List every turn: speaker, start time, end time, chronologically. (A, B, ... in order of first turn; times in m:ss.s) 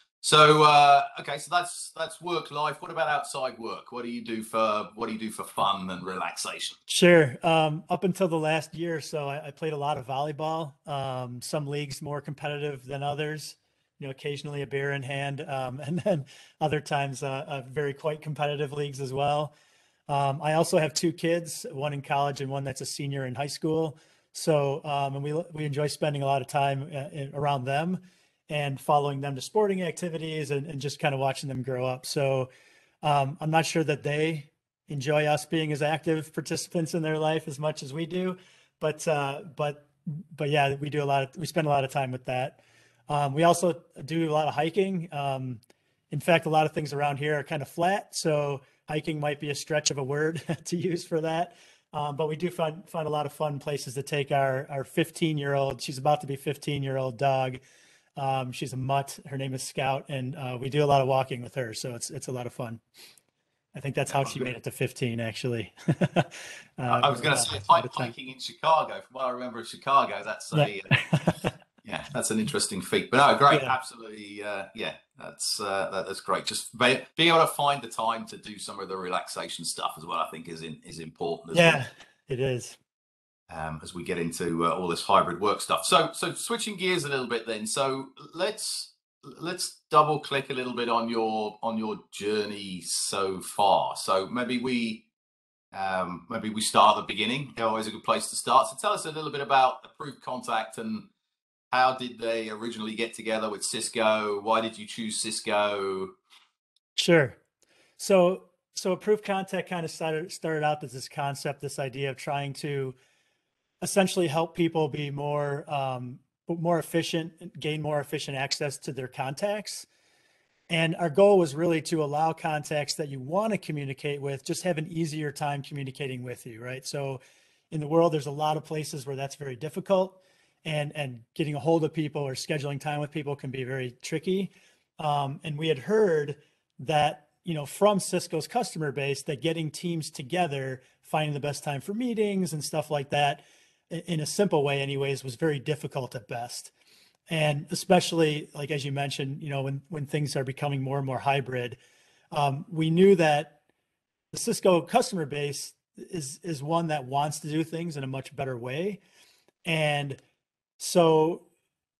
0:00.2-0:06.8 A
0:06.9-0:19.5 B
0:20.1-0:32.5 B
0:33.0-0:57.6 B
0:58.2-1:02.8 B
1:03.7-1:08.1 B
1:04.1-1:04.5 A
1:06.9-1:11.0 A
1:10.5-1:11.5 B
1:11.8-1:21.8 A
1:21.5-1:22.8 B
1:23.5-1:35.0 A
1:35.7-1:41.0 A
1:41.7-1:46.1 A
1:47.0-1:47.4 B
1:48.0-1:53.0 B
1:53.8-1:59.9 B
2:00.7-2:07.2 B
2:07.7-2:26.7 B
2:27.3-2:31.8 B
2:32.3-2:33.6 B
2:34.3-2:39.0 B
2:39.6-2:40.2 B
2:40.8-2:41.4 B